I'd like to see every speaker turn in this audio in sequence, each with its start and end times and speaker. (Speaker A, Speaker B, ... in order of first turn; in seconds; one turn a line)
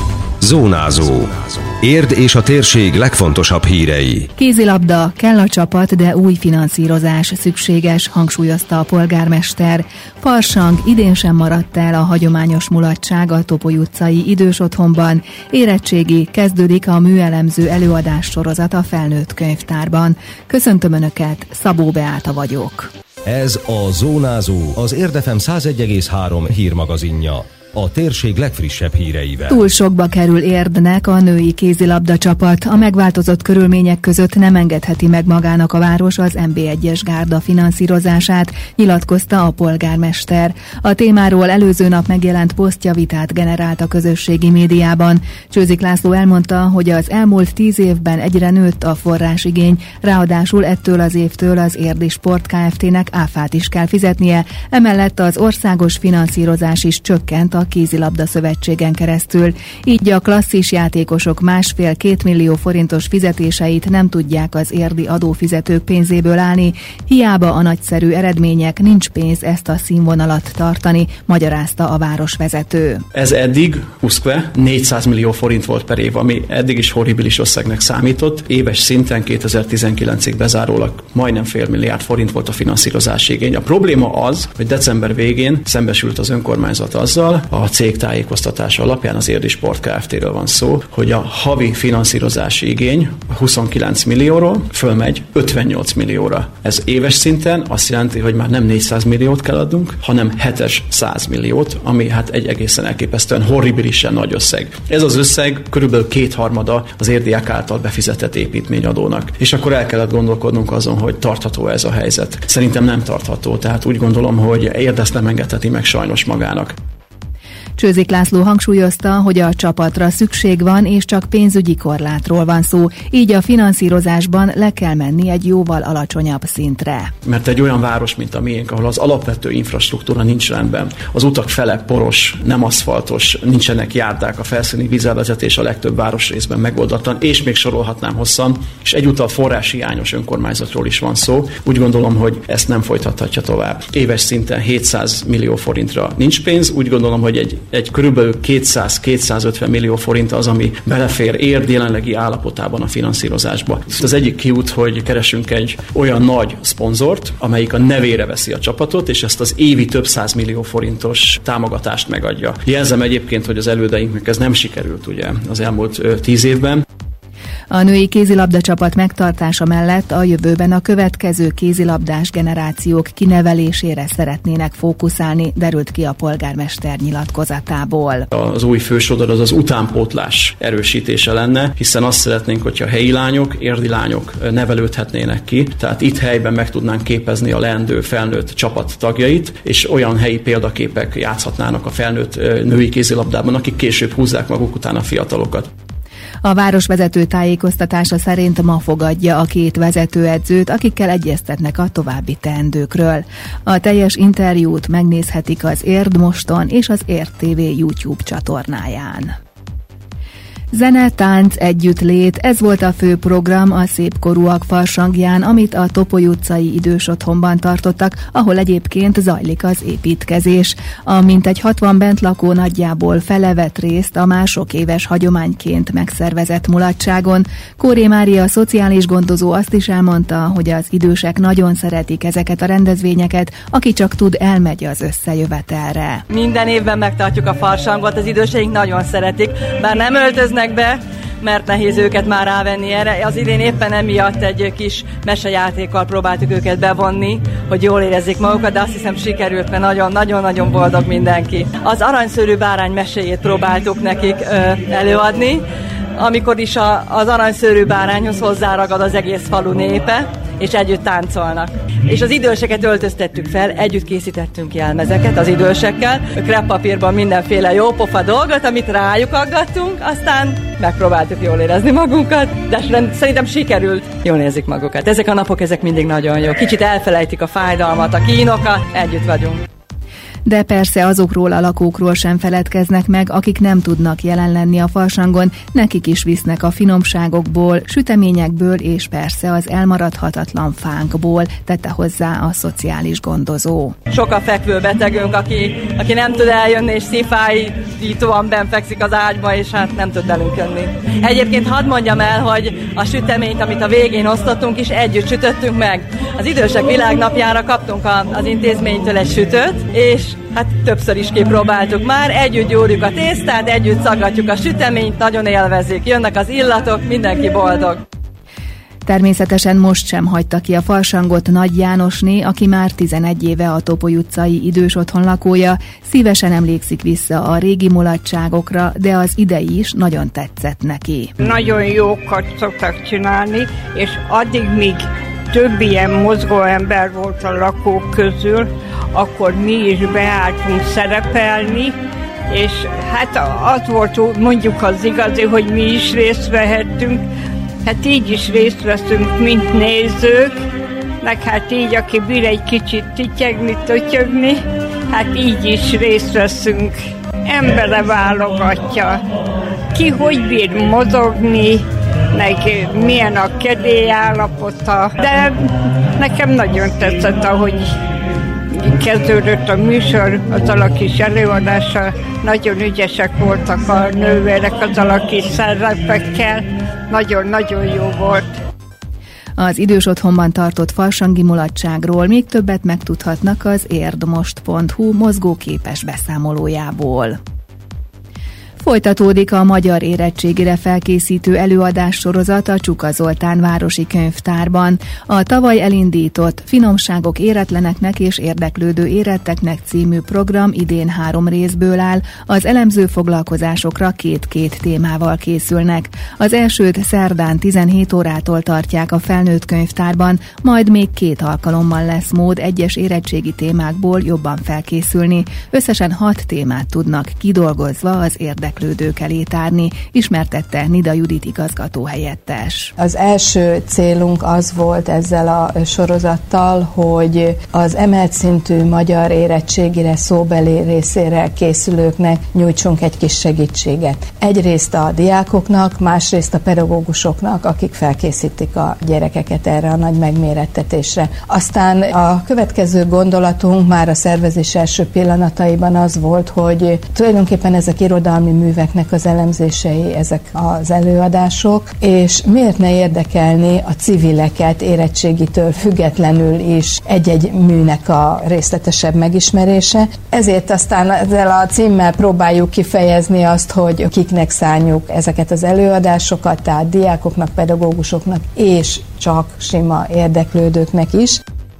Speaker A: 0.4-4.3
Speaker B: 4.4-22.9
Speaker A: 23.3-29.6
Speaker B: 29.5-73.0
Speaker C: 73.1-116.7
Speaker B: 117.8-127.1
Speaker C: 127.2-166.8
Speaker B: 167.7-178.3
Speaker C: 178.3-195.7
Speaker B: 196.4-209.3
Speaker B: 210.7-236.2
Speaker D: 236.3-255.6
Speaker D: 256.2-279.6
Speaker B: 280.4-293.9
Speaker D: 294.1-318.0
Speaker B: 319.1-331.3
Speaker E: 331.4-335.0
Speaker E: 335.5-341.9
Speaker E: 342.5-347.2
Speaker E: 347.8-350.5
Speaker E: 351.2-354.6
Speaker E: 355.1-356.9
Speaker E: 357.5-359.2
Speaker E: 359.9-361.8
Speaker E: 362.3-365.5
Speaker E: 366.2-367.8
Speaker E: 368.9-378.4
Speaker B: 379.6-387.4
Speaker B: 388.8-422.9
Speaker F: 423.0-471.4